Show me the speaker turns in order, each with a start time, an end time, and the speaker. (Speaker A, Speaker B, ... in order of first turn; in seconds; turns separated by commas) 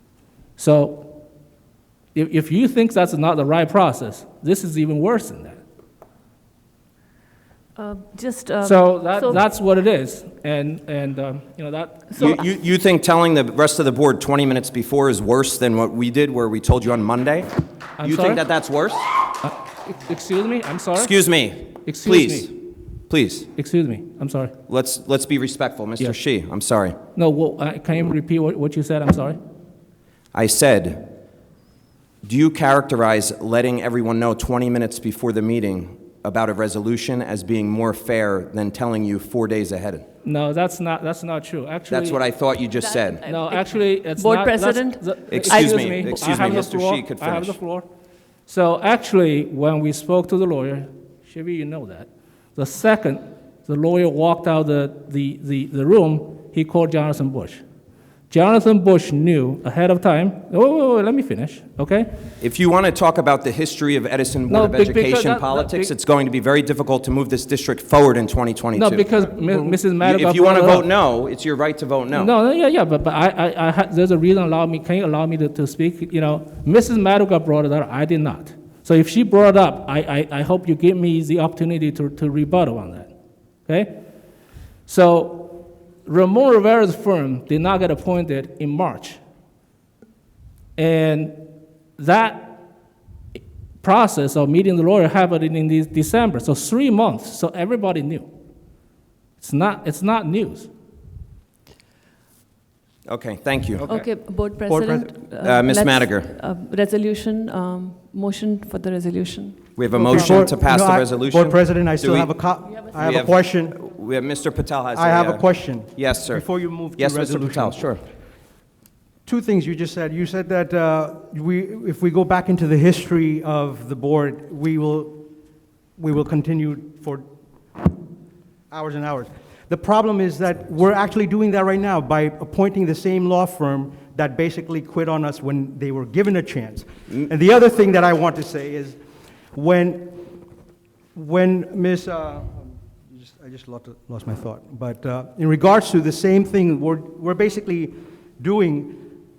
Speaker A: 0.6-1.2, Speaker A: 2.1-5.6, Speaker B: 7.8-9.4, Speaker A: 8.6-12.4, Speaker B: 12.1-12.5, Speaker C: 12.2-19.3, Speaker A: 18.0-18.4, Speaker A: 19.4-21.1, Speaker C: 20.9-22.5, Speaker A: 21.8-22.5, Speaker C: 23.1-23.5, Speaker A: 23.6-24.5, Speaker C: 24.7-27.0, Speaker A: 27.1-29.4, Speaker C: 30.3-31.1, Speaker C: 32.2-40.0, Speaker A: 40.2-42.2, Speaker C: 41.9-43.2, Speaker B: 42.8-46.6, Speaker A: 43.2-47.9, Speaker C: 45.3-47.6, Speaker A: 48.5-57.6, Speaker A: 58.3-62.2, Speaker C: 62.4-72.3, Speaker A: 64.5-65.9, Speaker A: 68.7-70.9, Speaker A: 72.1-83.1, Speaker A: 83.7-84.0, Speaker A: 84.9-89.2, Speaker A: 90.8-91.4, Speaker A: 92.0-92.6, Speaker A: 93.8-98.3, Speaker A: 99.4-100.7, Speaker C: 103.1-104.1, Speaker B: 103.8-110.4, Speaker D: 104.7-105.1, Speaker C: 105.4-106.3, Speaker C: 109.8-112.3, Speaker D: 110.0-113.8, Speaker C: 113.0-118.0, Speaker D: 114.9-117.9, Speaker D: 119.3-125.2, Speaker D: 126.0-127.2, Speaker D: 128.7-139.0, Speaker D: 139.5-140.2, Speaker D: 141.2-149.0